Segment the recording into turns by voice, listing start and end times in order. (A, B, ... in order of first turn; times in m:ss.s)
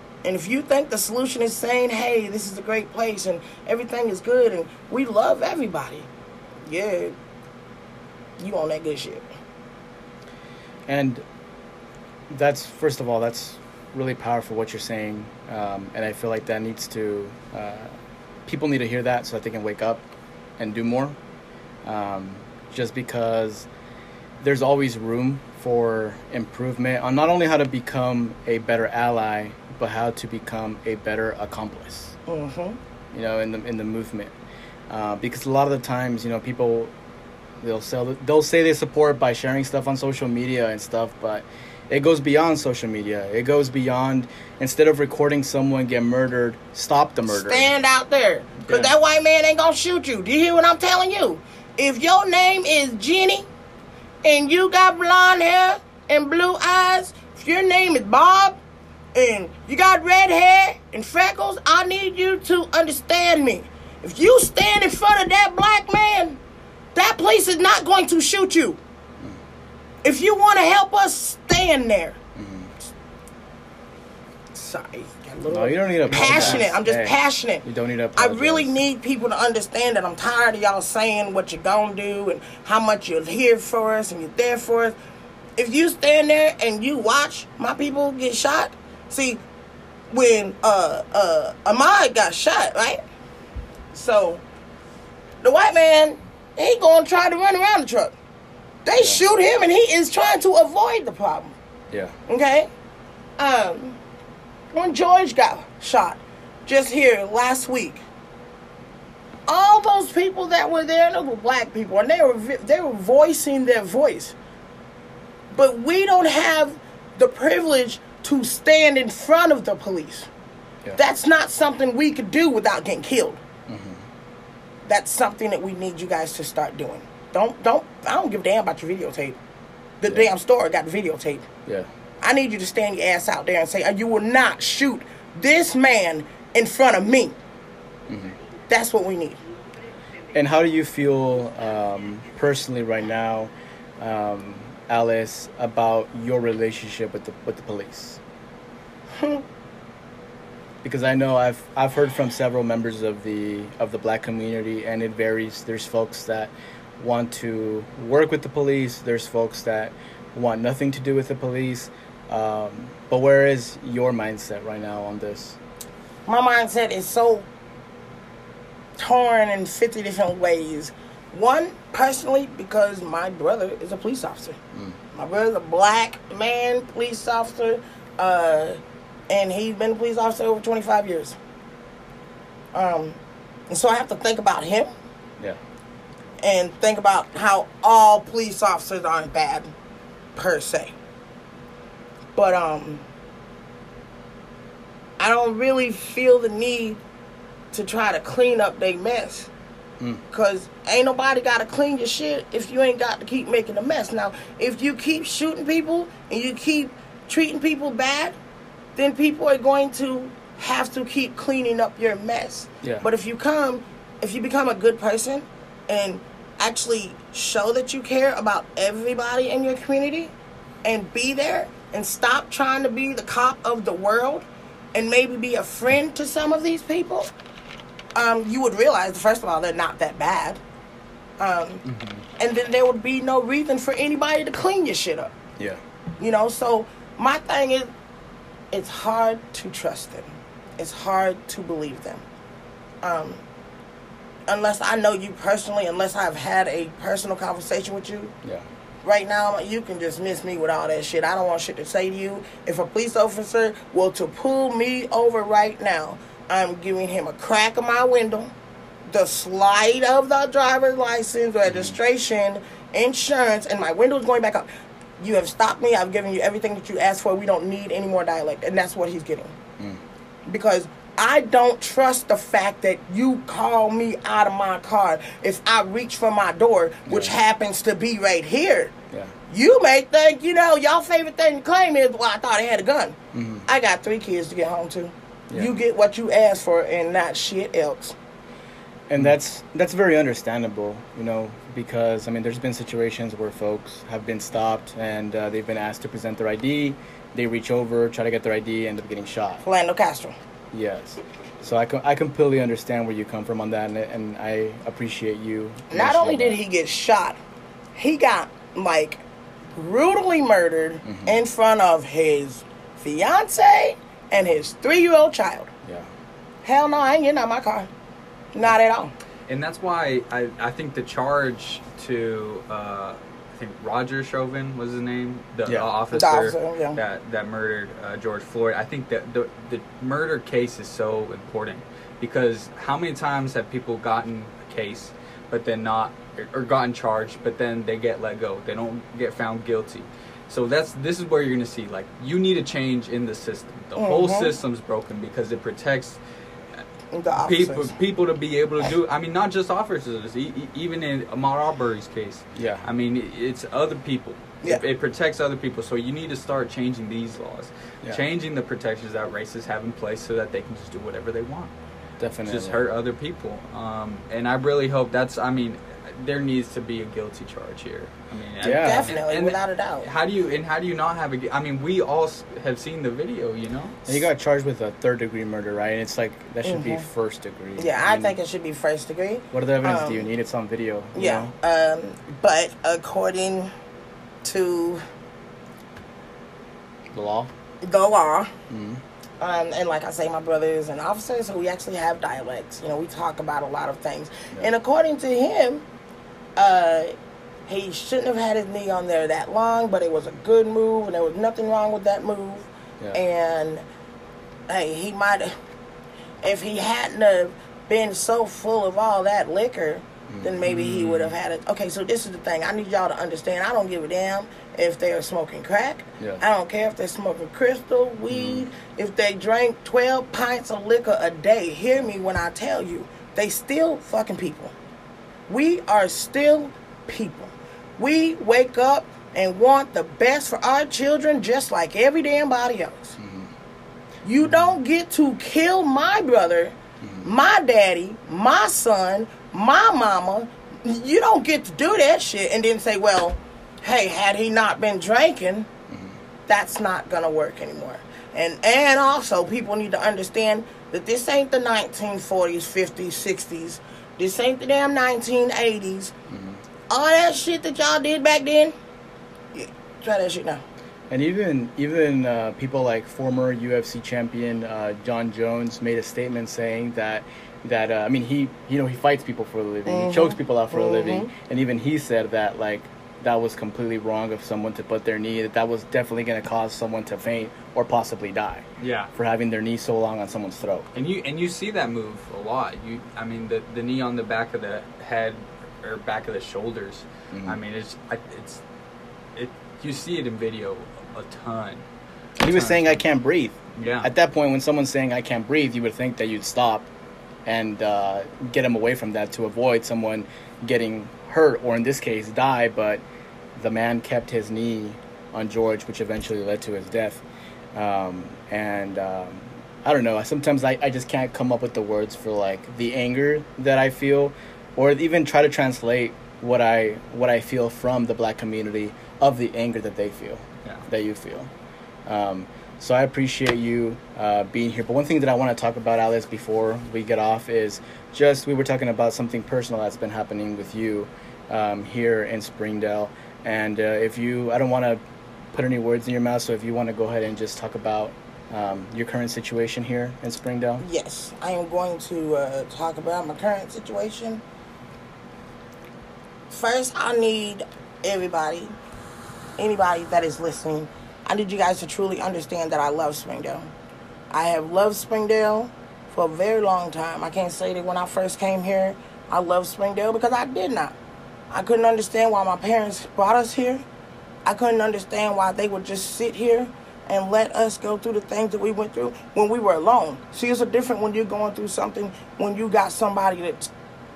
0:00.2-0:06.1 A
0:06.6-0:07.2 A
0:08.4-0:09.2 A
0:10.9-0:11.2 B
0:12.3-0:20.0 B
0:20.6-0:21.2 B
0:21.8-0:23.7 B
0:24.4-0:32.2 B
0:32.3-0:32.8 A
0:33.1-0:34.3 B
0:34.9-0:36.9 B
0:37.6-0:47.7 B
0:47.3-0:53.5 A
0:48.7-0:48.9 B
0:54.2-0:58.6 A
0:59.1-1:06.4 A
1:06.9-1:08.8 A
1:10.0-1:12.2 A
1:12.4-1:12.7 B
1:14.5-1:25.0 A
1:15.5-1:18.8 B
1:16.2-1:16.7 C
1:25.6-1:29.4 A
1:30.1-1:33.0 A
1:33.9-1:34.4 A
1:35.4-1:38.1 A
1:38.8-1:41.6 A
1:42.3-1:42.7 A
1:43.4-1:44.0 A
1:44.7-1:48.0 A
1:49.5-1:54.3 A
1:55.5-2:00.3 A
2:00.9-2:03.4 A
2:03.7-2:04.0 B
2:04.8-2:09.4 A
2:10.0-2:11.4 A
2:12.2-2:17.4 A
2:18.1-2:18.4 B
2:18.7-2:19.4 A
2:20.3-2:28.2 B
2:29.2-2:29.4 A
2:30.8-2:45.6 B
2:46.3-2:47.5 A
2:49.0-2:54.6 A
2:54.7-2:55.0 B
2:55.1-3:01.4 A
3:02.7-3:04.9 A
3:06.4-3:09.7 A
3:10.4-3:10.9 A
3:12.4-3:13.0 A
3:15.2-3:17.0 A
3:17.7-3:19.5 A
3:20.3-3:28.4 A
3:28.9-3:40.3 A
3:40.8-3:47.3 A
3:48.1-3:50.6 A
3:51.4-3:51.8 A
3:51.8-3:52.2 C
3:52.4-3:55.3 A
3:56.2-3:57.9 A
3:58.7-4:02.2 A
4:03.0-4:03.4 A
4:04.5-4:08.3 A
4:09.0-4:18.5 A
4:19.1-4:29.6 A
4:21.7-4:22.0 B
4:30.5-4:38.9 A
4:37.1-4:37.3 B
4:39.5-4:48.1 A
4:43.3-4:43.6 B
4:45.5-4:45.8 B
4:49.1-4:59.6 B
4:59.6-5:00.4 A
5:00.7-5:06.6 B
5:05.9-5:07.4 A
5:07.9-5:15.7 A
5:11.0-5:11.4 B
5:15.8-5:16.1 B
5:16.6-5:17.9 A
5:18.5-5:19.1 A
5:19.5-5:46.2 C
5:26.1-5:27.0 A
5:44.0-5:44.5 A
5:47.1-5:47.9 A
5:47.3-6:01.7 C
5:52.5-5:52.8 B
6:02.2-6:02.8 B
6:02.4-6:14.1 C
6:08.6-6:09.1 B
6:08.7-6:10.1 A
6:14.0-6:18.3 B
6:16.6-6:17.0 A
6:17.8-6:20.2 A
6:19.5-6:21.5 B
6:21.1-6:23.7 A
6:24.4-6:25.0 A
6:27.1-6:27.5 B
6:27.8-6:28.5 A
6:28.7-6:29.0 B
6:29.4-6:35.8 A
6:36.6-6:37.2 A
6:37.7-6:43.8 A
6:44.7-6:45.5 A
6:46.4-7:04.7 A
6:50.3-6:51.3 B
6:58.3-6:58.6 B
7:05.5-7:13.2 A
7:13.2-7:13.5 B
7:14.2-7:25.7 A
7:14.4-7:14.8 B
7:17.0-7:17.2 B
7:25.9-7:26.2 B
7:26.5-7:36.1 A
7:36.3-7:36.6 B
7:36.9-7:38.7 A
7:39.5-7:40.6 A
7:41.1-8:00.9 B
7:49.8-7:51.3 A
7:58.8-7:59.1 C
8:00.9-8:08.6 C
8:07.3-8:07.6 B
8:09.3-8:11.8 C
8:12.4-8:16.9 B
8:12.4-8:13.0 C
8:13.8-8:14.1 C
8:17.4-8:23.0 B
8:23.5-8:27.2 B
8:27.7-8:41.5 B
8:42.0-8:55.0 B
8:55.5-9:00.8 B
9:00.8-9:04.4 A
9:06.5-9:08.8 A
9:09.6-9:13.7 A
9:14.3-9:20.9 A
9:21.5-9:23.8 A
9:24.4-9:33.7 A